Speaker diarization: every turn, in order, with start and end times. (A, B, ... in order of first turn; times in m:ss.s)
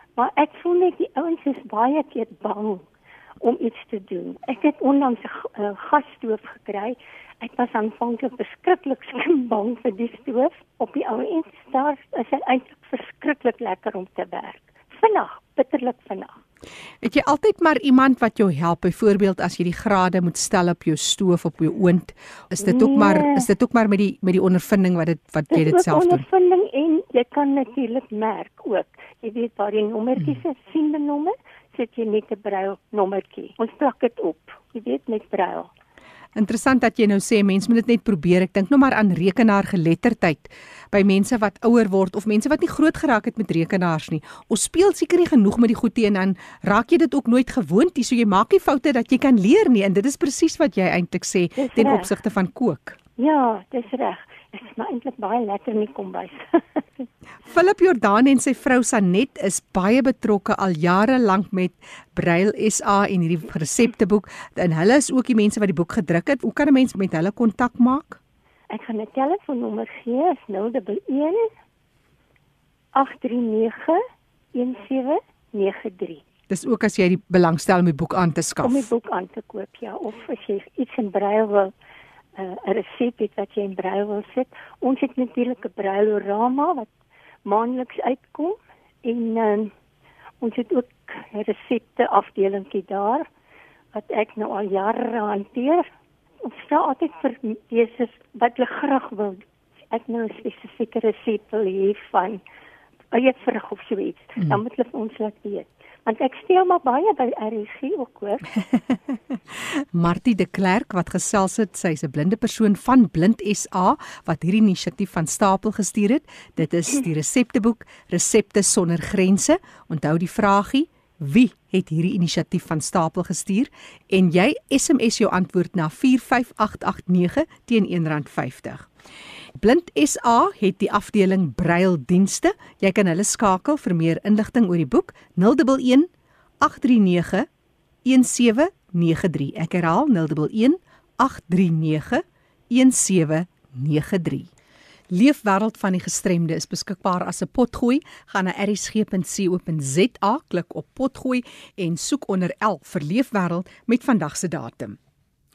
0:00.2-0:02.8 A
0:03.4-0:16.4 A
0:17.0-0:26.2 B
0:22.6-0:23.5 A
0:25.5-0:35.7 A
0:36.4-0:53.0 B
0:51.6-0:52.1 A
0:53.2-0:57.1 A
0:57.5-1:08.2 B
1:08.7-1:11.5 A
1:12.9-1:14.0 A
1:14.5-1:16.2 A
1:16.5-1:18.9 B
1:18.6-1:21.7 A
1:22.4-1:26.9 A
1:27.5-1:29.7 A
1:30.4-1:33.3 A
1:33.9-1:35.9 A
1:36.4-1:42.4 A
1:43.1-1:48.5 A
1:49.9-2:08.9 B
2:09.6-2:16.1 B
2:16.6-2:17.5 B
2:18.0-2:24.5 B
2:25.1-2:35.0 B